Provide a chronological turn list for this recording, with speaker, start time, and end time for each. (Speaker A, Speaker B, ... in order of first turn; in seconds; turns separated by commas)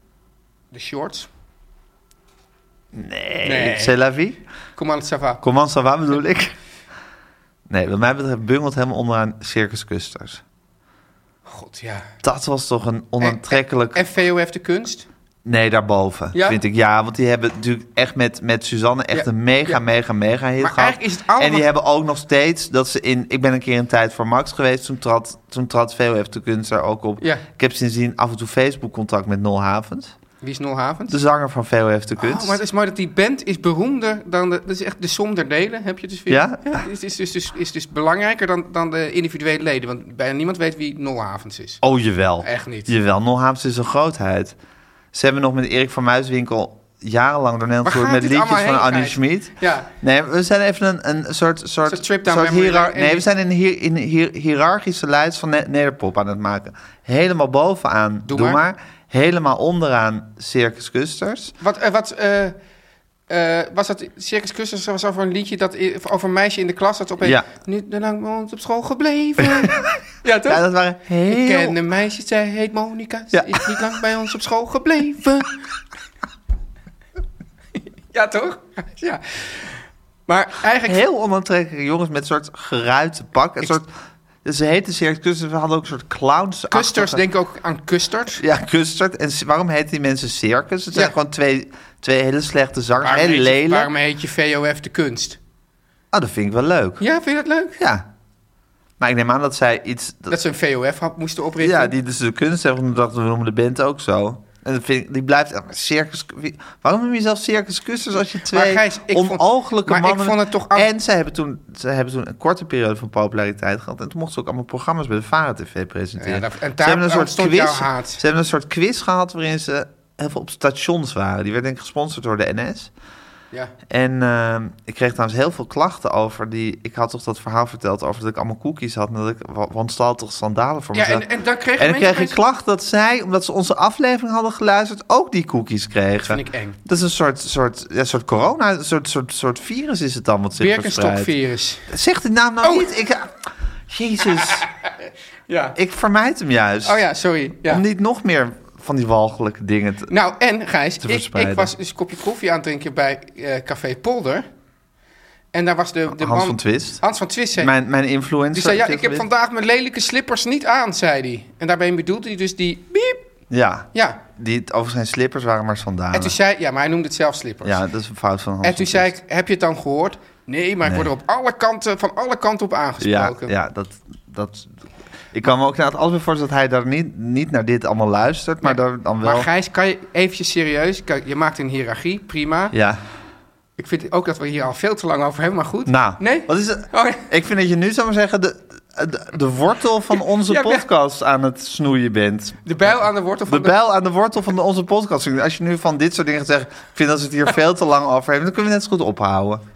Speaker A: 0.7-1.3, Speaker B: 2.9-4.4, Speaker A: 3.4-4.0, Speaker A: 4.8-5.4, Speaker B: 5.4-6.5, Speaker B: 7.7-10.4, Speaker A: 11.4-12.1, Speaker B: 12.2-14.1, Speaker A: 13.2-15.1, Speaker B: 15.4-30.2, Speaker A: 16.3-16.6, Speaker A: 19.1-19.8, Speaker A: 20.6-21.7, Speaker A: 30.4-31.2, Speaker B: 31.1-32.6, Speaker A: 32.2-41.8, Speaker B: 36.3-36.8, Speaker B: 41.8-44.5, Speaker A: 42.4-42.9, Speaker B: 45.1-61.5, Speaker A: 47.8-49.9, Speaker A: 51.9-53.2, Speaker A: 58.3-58.6, Speaker A: 61.6-62.5, Speaker A: 63.3-70.6, Speaker B: 67.2-67.5, Speaker B: 69.4-69.9, Speaker B: 70.4-71.8, Speaker A: 71.3-75.5, Speaker B: 73.3-73.8, Speaker A: 78.1-81.0, Speaker B: 80.8-83.9, Speaker B: 84.4-87.2, Speaker A: 86.7-88.4, Speaker B: 88.4-93.9, Speaker A: 93.0-95.4, Speaker B: 96.1-97.0, Speaker A: 97.0-97.8, Speaker B: 97.8-98.1, Speaker B: 99.0-100.4, Speaker A: 100.3-101.9, Speaker B: 101.6-122.9, Speaker A: 108.5-110.9, Speaker A: 116.2-118.2, Speaker B: 123.9-131.2, Speaker A: 130.9-132.4, Speaker B: 131.8-141.3, Speaker A: 136.3-136.8, Speaker A: 140.6-141.9, Speaker B: 141.9-144.6, Speaker A: 142.6-142.9, Speaker A: 144.2-144.7, Speaker A: 145.5-145.8, Speaker B: 145.8-147.0, Speaker A: 146.8-147.8, Speaker B: 147.6-150.1, Speaker A: 150.1-154.4, Speaker B: 151.0-151.7, Speaker A: 155.5-157.7, Speaker B: 156.1-157.0, Speaker B: 157.6-159.2, Speaker A: 158.5-163.2, Speaker B: 163.5-166.3, Speaker A: 163.9-164.2, Speaker A: 166.1-167.8, Speaker B: 167.6-169.1, Speaker A: 168.6-173.5, Speaker B: 173.0-174.8, Speaker B: 175.3-179.5, Speaker A: 178.6-182.7, Speaker B: 182.7-183.0, Speaker A: 183.8-187.2, Speaker B: 185.8-199.6, Speaker A: 190.1-190.8, Speaker A: 192.6-193.8